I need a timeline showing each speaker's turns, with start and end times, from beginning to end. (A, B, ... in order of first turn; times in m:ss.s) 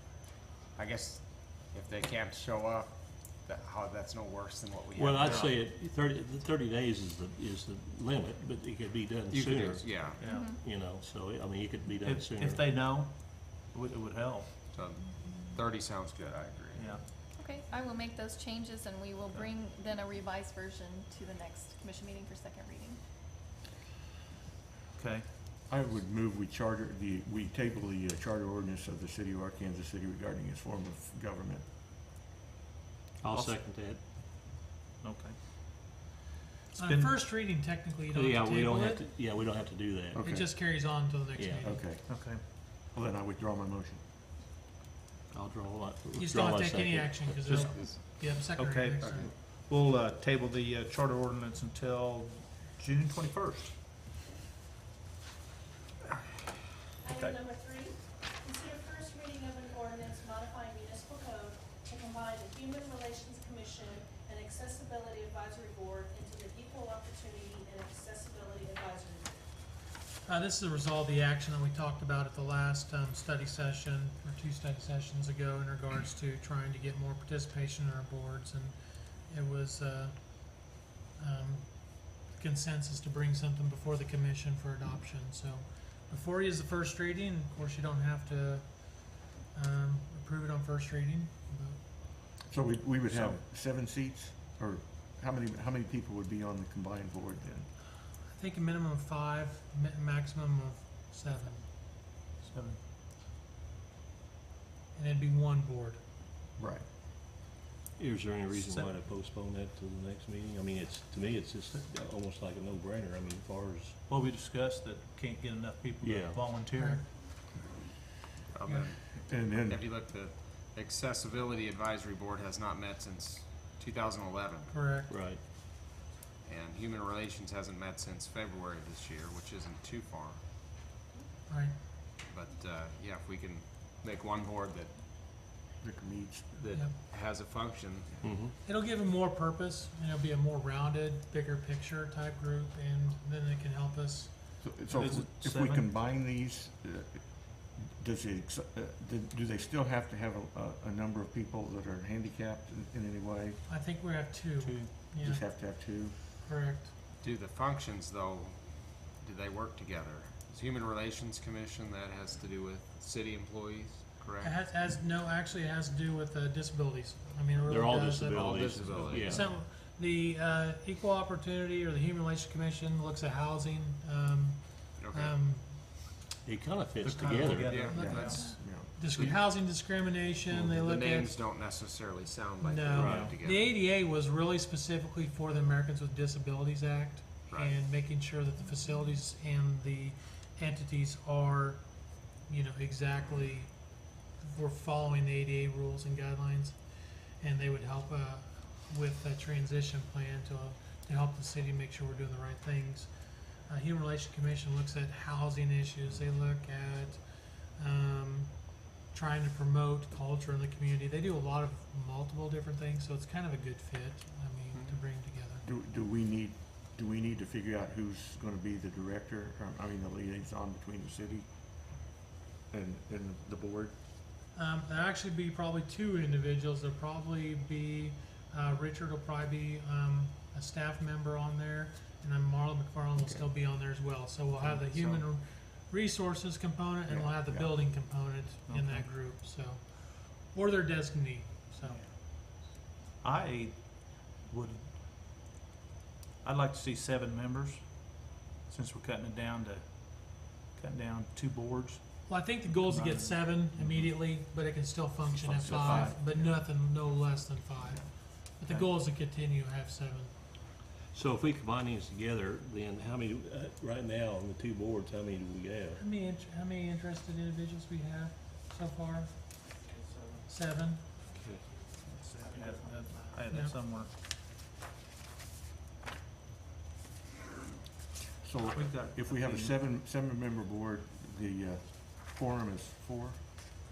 0:00.8-0:05.5 A
0:05.0-0:12.7 B
0:09.3-0:10.2 A
0:10.2-0:10.6 C
0:10.2-0:10.6 D
0:12.0-0:14.5 C
0:14.7-0:17.0 A
0:16.7-0:17.0 C
0:17.4-0:23.0 D
0:25.0-0:25.3 C
0:25.7-0:31.6 E
0:33.2-0:34.0 B
0:33.2-0:33.6 C
0:35.0-0:35.4 C
0:36.7-0:37.4 C
0:36.7-0:39.0 F
0:38.1-0:41.8 B
0:40.1-0:40.6 E
0:40.2-0:41.9 F
0:41.6-0:44.0 E
0:42.0-0:42.4 C
0:45.3-0:47.7 B
0:46.2-0:49.3 F
0:47.5-0:53.8 C
0:47.6-0:47.9 A
0:57.0-1:09.4 G
0:57.1-0:57.4 C
1:10.2-1:31.8 F
1:32.5-1:37.7 E
1:33.1-1:33.4 C
1:38.2-1:41.7 F
1:42.4-1:42.8 C
1:44.9-1:46.0 F
1:46.6-1:46.8 E
1:48.0-1:54.0 B
1:54.1-1:57.1 C
1:56.0-1:56.7 B
1:56.7-1:57.1 F
1:58.5-2:04.7 A
1:59.3-1:59.9 E
2:04.7-2:05.1 F
2:05.1-2:05.4 B
2:06.4-2:10.4 A
2:11.5-2:11.8 F
2:12.2-2:15.0 A
2:15.8-2:16.7 E
2:16.5-2:18.3 A
2:18.2-2:18.5 B
2:18.5-2:24.4 F
2:24.6-2:33.6 E
2:24.9-2:25.9 C
2:33.7-2:36.9 F
2:34.6-2:34.9 C
2:35.1-2:36.2 E
2:37.2-2:44.6 A
2:44.4-2:56.1 F
2:47.7-2:49.5 B
2:48.3-2:49.6 A
2:55.0-2:55.4 A
2:56.4-2:58.0 B
2:57.0-2:58.6 C
2:57.5-2:58.5 A
2:57.9-2:59.0 E
2:57.9-3:01.4 F
3:00.5-3:03.7 A
3:02.6-3:35.7 F
3:03.0-3:03.3 B
3:03.0-3:03.4 C
3:07.5-3:07.8 A
3:35.6-3:42.0 E
3:42.7-3:44.0 E
3:44.5-4:02.0 F
3:54.6-3:55.2 C
3:57.1-3:58.2 E
3:58.7-3:59.1 C
4:01.8-4:02.1 C
4:03.2-4:04.9 C
4:06.4-4:14.1 C
4:12.3-4:20.3 F
4:15.3-4:16.7 E
4:15.7-4:16.2 C
4:21.1-4:26.0 B
4:26.0-4:29.7 F
4:30.1-4:30.4 C
4:30.5-4:31.1 F
4:31.3-4:31.6 B
4:32.0-4:34.1 C
4:33.5-4:33.8 F
4:38.4-4:43.4 E
4:38.7-4:39.8 C